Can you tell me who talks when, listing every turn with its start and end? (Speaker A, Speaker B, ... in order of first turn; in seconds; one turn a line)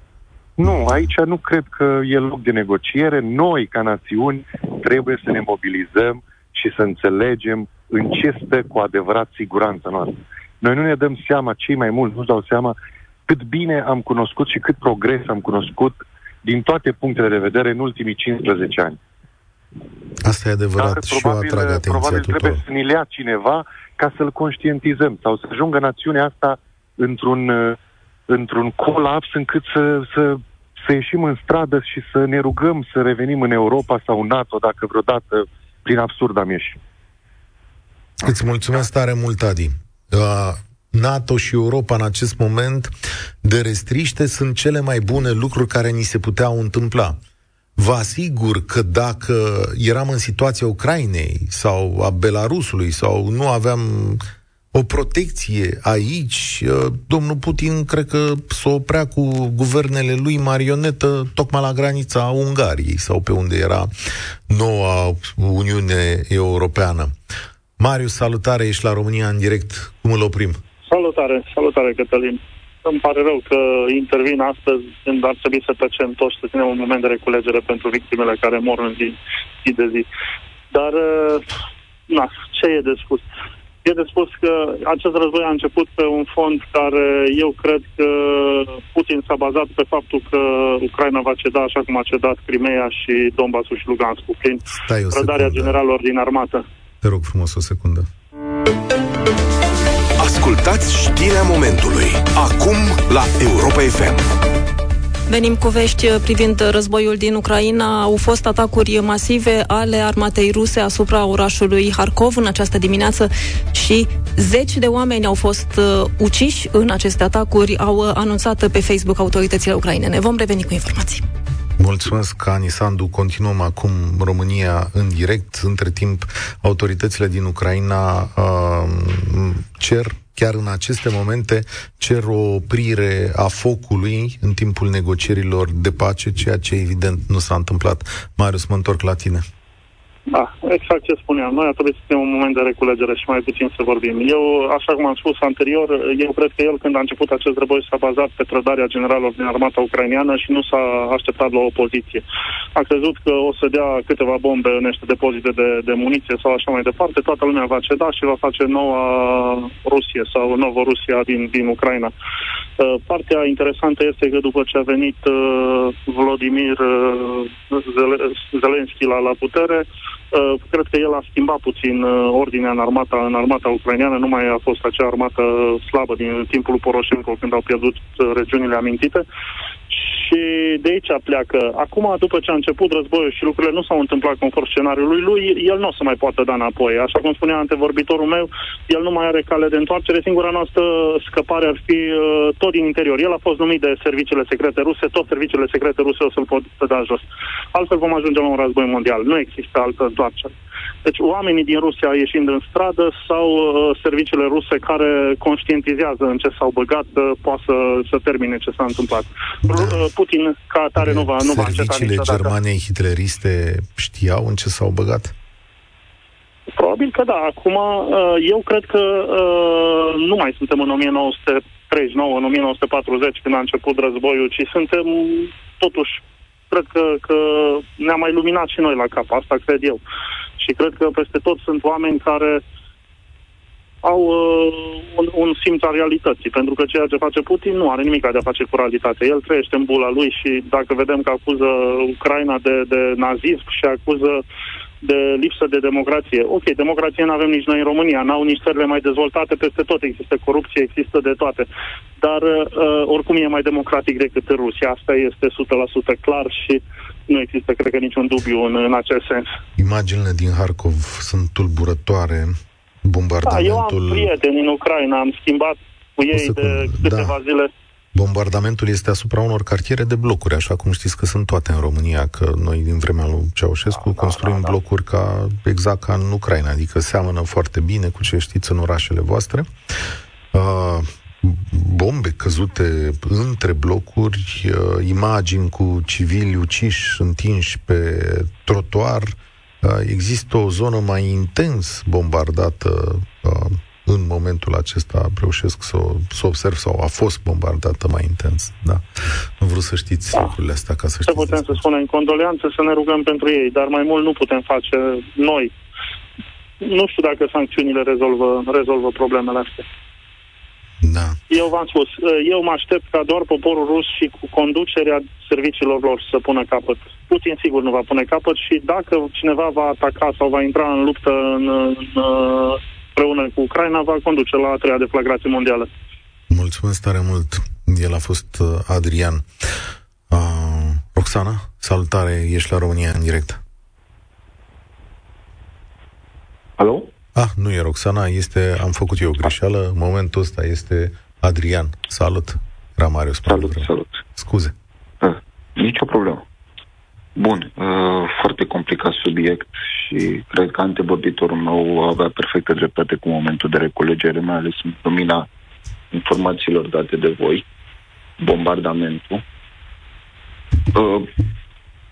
Speaker A: 0.6-12.7
Speaker A: 13.3-19.0
Speaker B: 20.2-22.6
Speaker A: 20.8-27.8
Speaker A: 28.3-36.8
Speaker B: 38.2-42.9
Speaker B: 43.4-47.2
Speaker B: 47.8-54.2
Speaker B: 54.7-63.9
Speaker B: 64.5-67.1
Speaker B: 67.8-70.6
Speaker C: 70.8-80.0
Speaker C: 80.7-81.5
Speaker C: 82.1-83.3
Speaker C: 83.8-96.6
Speaker B: 94.7-95.8
Speaker B: 97.0-98.1
Speaker D: 100.2-104.2
Speaker E: 105.3-121.2
Speaker B: 121.8-139.4
Speaker C: 140.3-152.2
Speaker C: 152.7-162.1
Speaker C: 162.8-179.2
Speaker C: 179.9-212.5
Speaker B: 209.6-210.1
Speaker B: 211.0-215.3
Speaker C: 216.8-230.0
Speaker C: 230.6-232.6
Speaker C: 234.0-244.4
Speaker C: 245.0-251.7
Speaker C: 252.2-259.5
Speaker B: 259.8-264.3
Speaker C: 263.4-267.7
Speaker B: 266.3-267.4
Speaker B: 268.1-279.7
Speaker B: 280.5-299.1
Speaker B: 299.6-301.8
Speaker C: 301.3-305.7
Speaker C: 306.8-309.8
Speaker B: 311.0-311.4
Speaker C: 311.5-325.9
Speaker B: 326.5-329.6
Speaker B: 330.3-333.6
Speaker F: 336.8-337.1
Speaker B: 337.3-344.7
Speaker F: 343.5-344.2
Speaker F: 345.2-346.4
Speaker F: 347.4-355.5
Speaker F: 356.1-357.6
Speaker F: 358.4-359.4
Speaker F: 360.9-361.3